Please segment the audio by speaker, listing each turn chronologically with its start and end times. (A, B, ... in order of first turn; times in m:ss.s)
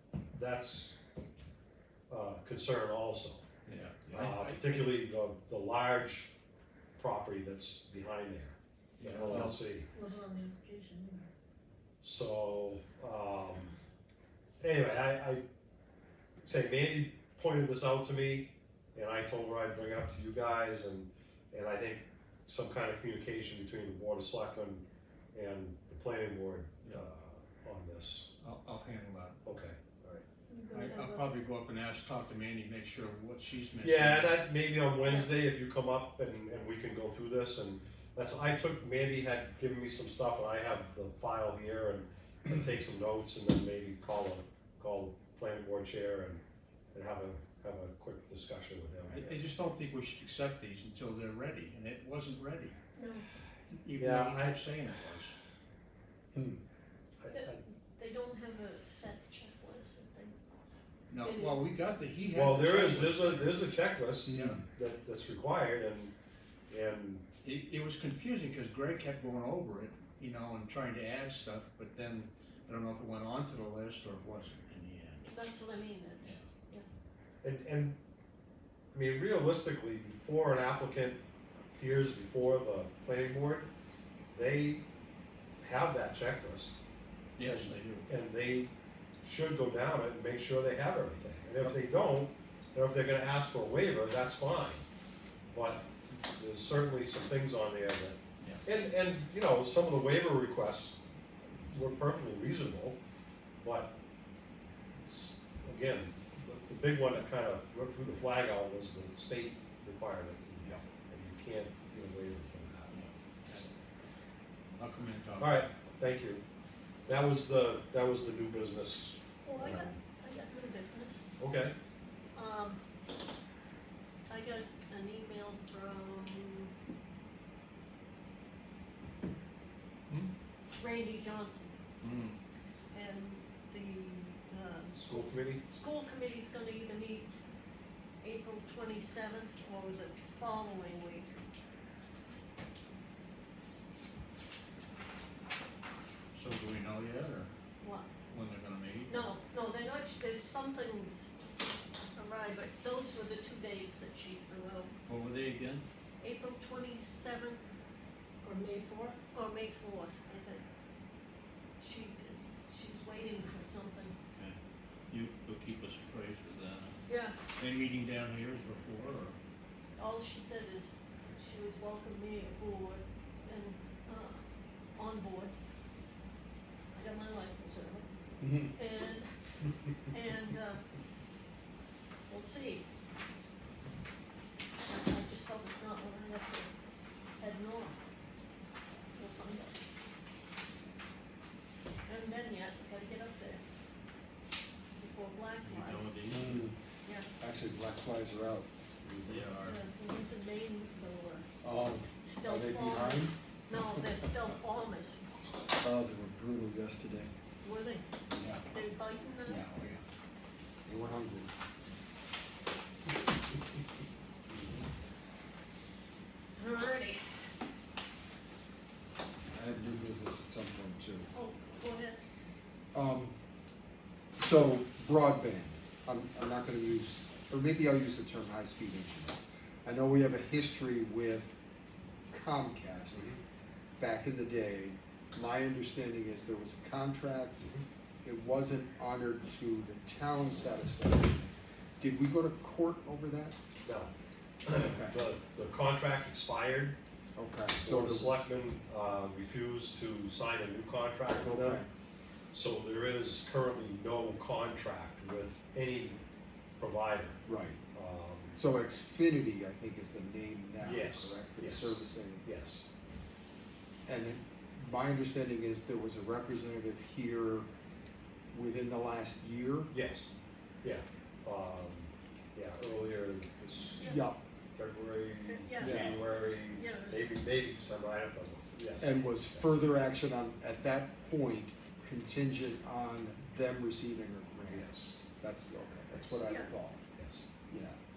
0:00.3-0:01.0 A
0:02.1-0:03.4 A
0:03.6-0:04.9 B
0:04.1-0:04.3 C
0:04.1-0:06.3 A
0:07.0-0:09.9 A
0:09.0-0:09.6 B
0:09.2-0:09.5 C
0:09.9-0:11.3 D
0:12.0-0:13.7 A
0:14.6-0:15.4 A
0:16.4-0:28.3 A
0:28.4-0:29.4 B
0:29.4-0:30.2 A
0:30.5-0:31.3 D
0:30.7-0:34.4 B
0:33.8-0:49.4 A
0:35.0-0:35.3 D
0:49.1-0:52.8 B
0:53.0-0:53.2 D
0:53.7-0:55.3 B
0:53.9-0:54.6 A
0:56.3-0:56.6 C
0:57.2-0:57.6 A
0:57.3-1:00.4 D
1:01.1-1:03.6 B
1:01.2-1:01.6 D
1:02.3-1:06.1 A
1:04.3-1:04.6 B
1:04.3-1:04.6 C
1:06.7-1:07.2 A
1:07.4-1:15.3 B
1:15.3-1:16.8 D
1:17.4-1:18.0 A
1:18.9-1:21.2 A
1:21.7-1:23.7 A
1:24.3-1:24.8 A
1:25.6-1:26.8 A
1:27.4-1:28.1 B
1:27.4-1:34.8 A
1:35.5-1:41.0 A
1:41.5-1:43.0 A
1:43.6-1:44.0 A
1:45.0-1:53.7 A
1:52.9-1:53.6 B
1:54.7-1:55.6 B
1:55.4-1:56.4 A
1:57.0-1:59.9 A
1:59.4-2:01.2 D
2:01.4-2:01.7 A
2:02.3-2:02.8 D
2:04.3-2:06.7 D
2:10.7-2:11.8 D
2:12.0-2:12.4 B
2:12.9-2:17.4 D
2:14.9-2:15.6 A
2:18.2-2:21.3 D
2:26.3-2:27.5 B
2:27.8-2:28.1 D
2:28.3-2:29.1 B
2:29.1-2:31.3 D
2:32.2-2:34.9 D
2:35.1-2:35.8 B
2:36.2-2:37.6 D
2:38.4-2:40.6 D
2:41.8-2:44.1 D
2:44.3-2:47.0 B
2:47.1-2:47.4 D
2:47.5-2:49.4 B
2:50.0-2:54.4 D
2:55.0-2:55.5 D
2:56.9-2:58.1 D
2:58.4-2:58.7 C
2:58.7-2:59.3 D
3:00.1-3:00.8 D
3:02.3-3:02.9 D
3:04.8-3:06.7 D
3:07.4-3:08.0 D
3:09.2-3:09.8 D
3:12.0-3:13.6 D
3:15.0-3:16.1 D
3:15.6-3:16.7 B
3:16.3-3:16.8 C
3:17.4-3:19.5 C
3:19.2-3:19.8 B
3:19.6-3:21.5 D
3:21.6-3:23.3 C
3:22.2-3:25.2 D
3:25.7-3:27.3 C
3:27.6-3:28.0 D
3:28.3-3:28.6 C
3:28.7-3:29.6 D
3:29.4-3:30.0 C
3:30.8-3:31.5 C
3:36.6-3:37.2 D
3:39.5-3:41.3 C
3:41.3-3:42.2 D
3:42.9-3:43.3 C
3:44.4-3:51.6 C
3:52.3-3:53.3 C
3:54.0-4:01.5 C
4:02.0-4:03.6 C
4:03.8-4:04.1 A
4:04.6-4:07.0 A
4:04.8-4:05.2 C
4:07.4-4:08.5 C
4:07.8-4:11.8 A
4:11.4-4:11.9 C
4:12.5-4:16.2 A
4:16.8-4:17.4 A
4:17.4-4:17.8 C
4:17.9-4:18.5 A
4:18.6-4:22.4 C
4:20.8-4:22.9 A
4:24.1-4:27.7 C
4:28.5-4:29.9 C
4:29.9-4:30.3 A
4:30.8-4:34.0 A
4:34.0-4:34.2 D
4:34.0-4:34.4 C
4:34.7-4:39.7 A
4:35.4-4:35.9 D
4:35.8-4:36.2 C
4:36.5-4:37.3 D
4:39.0-4:47.0 C
4:44.7-4:45.2 A
4:46.4-4:46.7 D
4:47.2-4:47.5 A
4:47.7-4:48.0 C